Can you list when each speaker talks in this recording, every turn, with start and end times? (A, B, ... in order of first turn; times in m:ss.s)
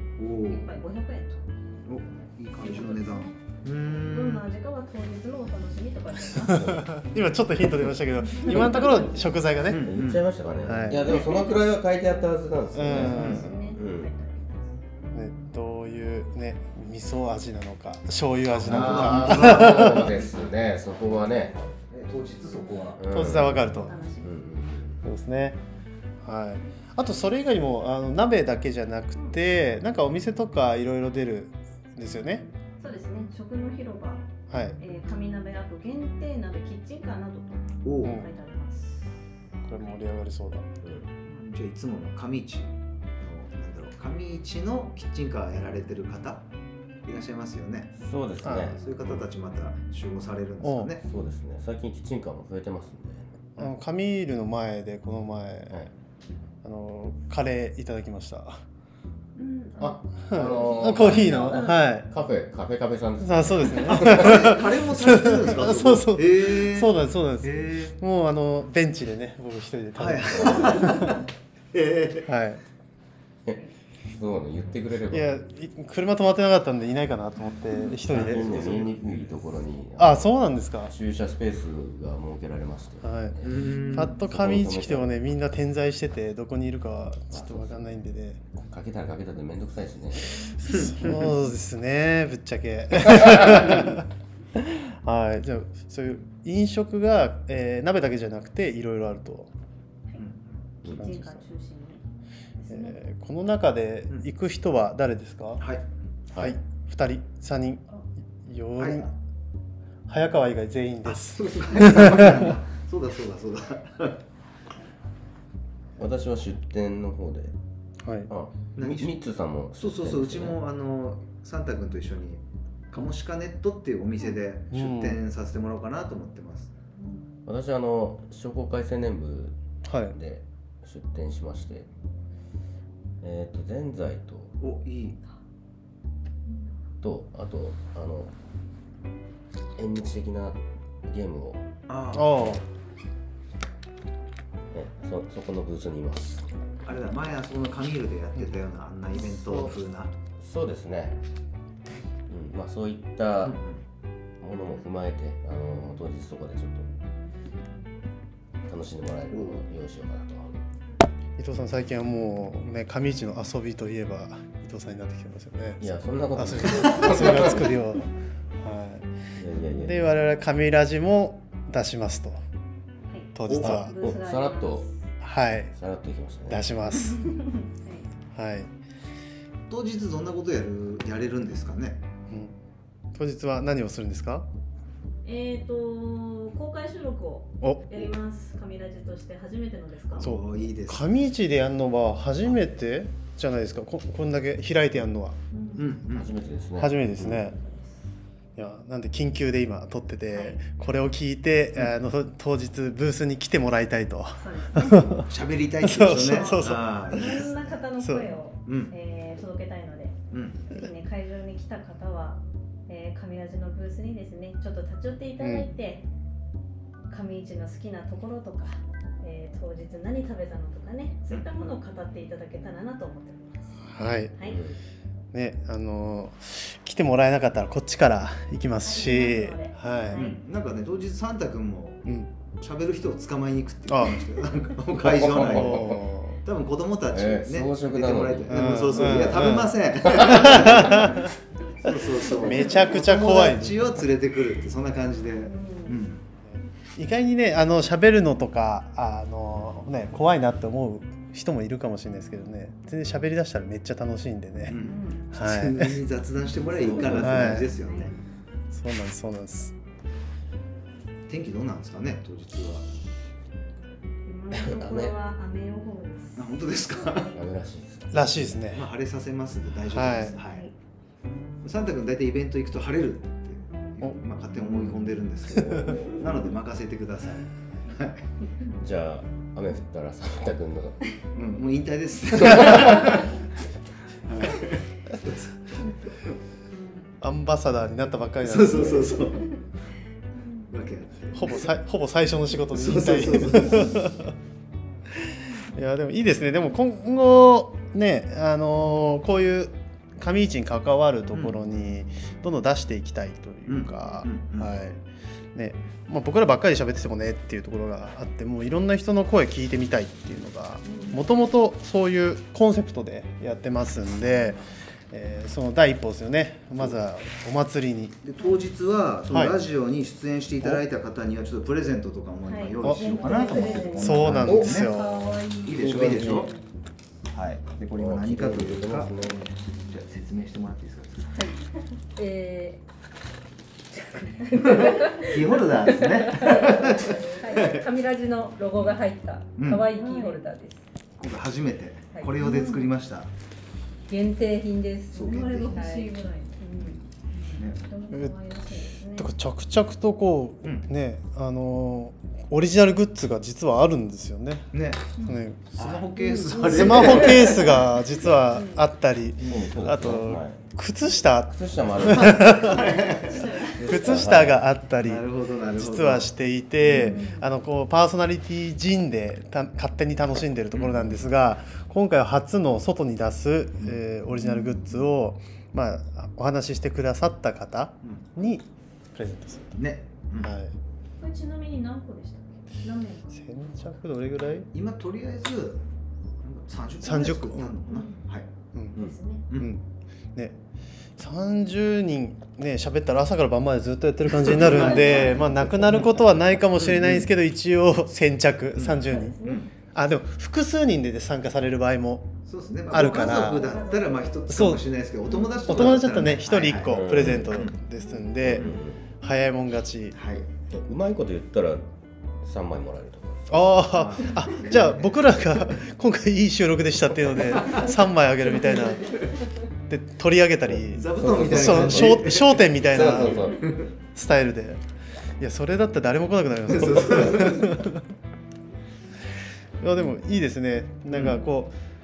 0:00.2-0:00.7 A
0:00.5-0:01.4 B
0:01.8-0:04.5 A
0:02.6-0:03.4 B
0:04.0-0:06.8 B
0:06.5-0:09.9 C
0:06.5-0:06.8 D
0:08.4-0:09.2 B
0:09.7-0:10.3 A
0:09.8-0:14.1 D
0:10.6-0:11.2 C
0:10.9-0:11.6 B
0:12.7-0:13.6 C
0:12.8-0:14.8 B
0:12.9-0:13.5 A
0:15.1-0:20.1 C
0:18.6-0:21.5 D
0:18.6-0:20.2 A
0:21.3-0:23.1 A
0:23.0-0:25.0 D
0:23.1-0:24.0 C
0:23.6-0:24.4 B
0:25.0-0:25.6 C
0:26.2-0:32.4 C
0:32.8-0:34.3 B
0:34.5-0:34.8 C
0:34.8-0:39.2 B
0:37.8-0:38.2 A
0:38.0-0:38.3 C
0:39.6-0:40.6 C
0:40.8-0:41.1 D
0:41.4-0:46.4 A
0:47.0-0:47.9 A
0:48.0-0:49.2 D
0:48.4-0:48.8 C
0:48.7-0:51.0 A
0:50.6-0:50.9 C
0:51.0-0:53.2 D
0:53.6-0:55.8 C
0:56.6-0:58.6 C
0:59.4-1:00.0 B
0:59.8-1:04.4 D
1:00.3-1:02.1 C
1:00.8-1:01.9 B
1:03.2-1:11.2 C
1:04.0-1:08.0 A
1:10.0-1:12.3 A
1:12.3-1:12.6 C
1:13.4-1:15.3 D
1:15.1-1:18.9 C
1:18.1-1:25.1 D
1:18.1-1:18.6 A
1:20.0-1:20.9 C
1:23.0-1:23.4 C
1:23.4-1:24.2 A
1:23.9-1:28.4 C
1:27.3-1:27.8 D
1:28.6-1:30.6 D
1:30.6-1:39.5 C
1:30.7-1:31.1 A
1:33.3-1:33.7 D
1:40.2-1:40.5 A
1:40.8-1:42.0 B
1:40.9-1:41.4 C
1:42.6-1:43.0 B
1:42.7-1:45.6 C
1:45.6-1:45.9 A
1:46.3-1:47.9 C
1:48.4-1:49.1 C
1:48.8-1:49.1 A
1:50.1-1:52.4 C
1:51.0-1:54.2 A
1:56.0-1:57.5 D
1:58.0-1:58.3 C
1:58.3-2:00.6 D
1:58.8-1:59.2 A
1:59.8-2:06.7 A
2:04.7-2:05.2 C
2:07.4-2:09.6 D
2:09.8-2:10.1 C
2:10.1-2:11.9 D
2:13.2-2:14.5 D
2:14.6-2:15.2 A
2:17.0-2:18.3 D
2:19.8-2:21.6 D
2:21.9-2:22.5 A
2:22.1-2:22.6 C
2:24.7-2:26.4 D
2:26.8-2:30.1 A
2:30.4-2:31.2 D
2:32.3-2:33.6 D
2:33.4-2:33.8 A
2:34.4-2:36.9 D
2:38.6-2:40.6 D
2:39.3-2:39.6 A
2:41.4-2:48.1 C
2:45.8-2:47.7 D
2:48.6-2:49.1 C
2:49.4-2:50.1 D
2:49.6-2:52.4 C
2:53.1-2:54.9 B
2:53.3-2:53.9 C
2:53.5-2:54.9 D
2:55.2-2:55.7 C
2:55.7-2:56.7 D
2:56.5-2:57.3 C
2:57.2-2:58.1 B
2:58.3-2:58.7 C
2:59.7-3:02.0 A
3:02.3-3:02.5 C
3:03.1-3:04.4 C
3:05.2-3:10.3 B
3:07.6-3:07.9 C
3:10.2-3:11.1 A
3:10.2-3:15.4 C
3:15.5-3:15.8 B
3:15.8-3:16.3 A
3:16.1-3:17.5 D
3:16.8-3:17.6 C
3:17.5-3:18.0 B
3:18.6-3:25.3 C
3:20.3-3:20.6 B
3:24.4-3:25.2 B
3:25.3-3:27.5 A
3:25.8-3:28.3 C
3:26.1-3:30.2 B
3:28.6-3:28.9 A
3:30.3-3:30.6 A
3:30.7-3:36.0 B
3:35.4-3:35.7 C
3:37.1-3:43.8 B
3:43.9-3:44.3 C
3:44.4-3:44.6 B
3:44.4-3:44.8 D
3:45.3-3:50.2 C
3:48.8-3:50.4 B
3:50.1-3:52.0 A
3:52.6-4:01.3 A
3:53.9-3:54.2 C
3:55.0-3:56.1 D
3:55.4-3:56.4 C
3:57.1-3:59.3 D
3:58.5-4:01.3 C
4:00.1-4:00.6 D
4:01.8-4:06.2 A
4:02.3-4:02.8 B
4:02.4-4:03.9 C
4:05.4-4:06.0 B
4:06.9-4:16.0 C
4:14.7-4:18.1 A
4:14.8-4:15.2 B
4:16.7-4:17.4 D
4:16.8-4:18.1 B
4:17.0-4:17.7 C
4:18.7-4:19.7 C
4:21.3-4:22.9 A
4:24.2-4:26.6 B
4:24.5-4:25.2 D
4:26.4-4:27.3 A
4:27.3-4:28.5 D
4:28.1-4:28.9 C
4:28.7-4:30.6 A
4:29.9-4:30.3 C
4:30.3-4:30.7 B
4:31.6-4:38.2 A
4:35.5-4:36.3 D
4:38.8-4:41.0 D
4:41.3-4:43.3 A
4:44.2-4:45.7 A
4:47.2-4:49.3 C
4:48.4-4:49.5 A
4:50.4-4:50.7 B
4:50.7-4:51.7 A
4:51.3-4:54.3 C
4:52.7-4:54.0 A
4:55.2-5:05.0 C
5:03.6-5:04.7 A
5:05.5-5:18.2 C
5:10.8-5:11.2 B
5:18.2-5:25.0 A
5:22.5-5:24.5 B
5:22.8-5:23.1 C
5:23.1-5:26.5 E
5:24.0-5:25.3 C
5:24.5-5:24.8 D
5:25.6-5:26.5 A
5:25.7-5:26.5 D
5:27.3-5:31.4 A
5:28.0-5:29.4 D
5:31.3-5:31.6 E
5:32.2-5:32.8 E
5:33.9-5:40.8 E
5:34.6-5:37.8 A
5:36.9-5:37.3 B
5:39.6-5:39.9 A
5:39.9-5:40.4 B
5:41.2-5:43.3 A
5:42.1-5:42.4 E
5:42.4-5:42.8 B
5:44.1-5:47.0 E
5:45.1-5:45.8 A
5:45.2-5:49.3 B
5:49.2-5:54.7 C
5:54.7-5:55.0 A
5:55.2-5:55.4 B
5:55.2-5:56.0 C
5:55.7-5:57.8 A
5:56.6-6:03.0 C
5:56.6-5:58.0 B
5:58.5-5:58.8 B
5:59.4-6:00.6 D
6:01.5-6:02.6 D
6:02.5-6:04.0 B
6:02.6-6:03.6 A
6:03.8-6:04.6 D
6:03.8-6:19.8 C
6:05.0-6:06.3 A
6:06.8-6:07.4 B
6:10.7-6:11.0 A
6:14.4-6:15.0 B
6:19.7-6:20.5 A
6:20.4-6:20.7 C
6:21.2-6:23.3 B
6:23.3-6:24.7 C
6:24.7-6:25.8 A
6:26.4-6:28.5 A
6:27.0-6:27.7 C
6:27.9-6:28.2 B
6:28.9-6:29.4 B
6:29.5-6:29.8 C
6:31.2-6:39.4 C
6:34.4-6:36.1 A
6:34.8-6:35.5 B
6:36.8-6:37.3 A
6:38.7-6:39.7 A
6:39.0-6:39.6 B
6:39.9-6:42.4 C
6:42.4-6:47.8 A
6:42.9-6:43.7 C
6:42.9-6:44.4 B
6:44.5-6:44.8 C
6:45.2-6:46.2 B
6:45.7-6:50.2 C
6:46.8-6:47.6 D
6:48.4-6:49.0 D
6:50.1-6:50.4 A
6:50.7-6:51.9 D
6:52.4-6:53.9 D
6:53.5-6:59.2 C
6:53.9-6:55.2 A
6:59.9-7:03.6 C
7:00.7-7:03.6 D
7:00.9-7:03.9 A
7:04.1-7:04.8 C
7:05.4-7:08.0 C
7:06.7-7:07.8 A
7:09.8-7:11.7 C
7:11.1-7:11.4 A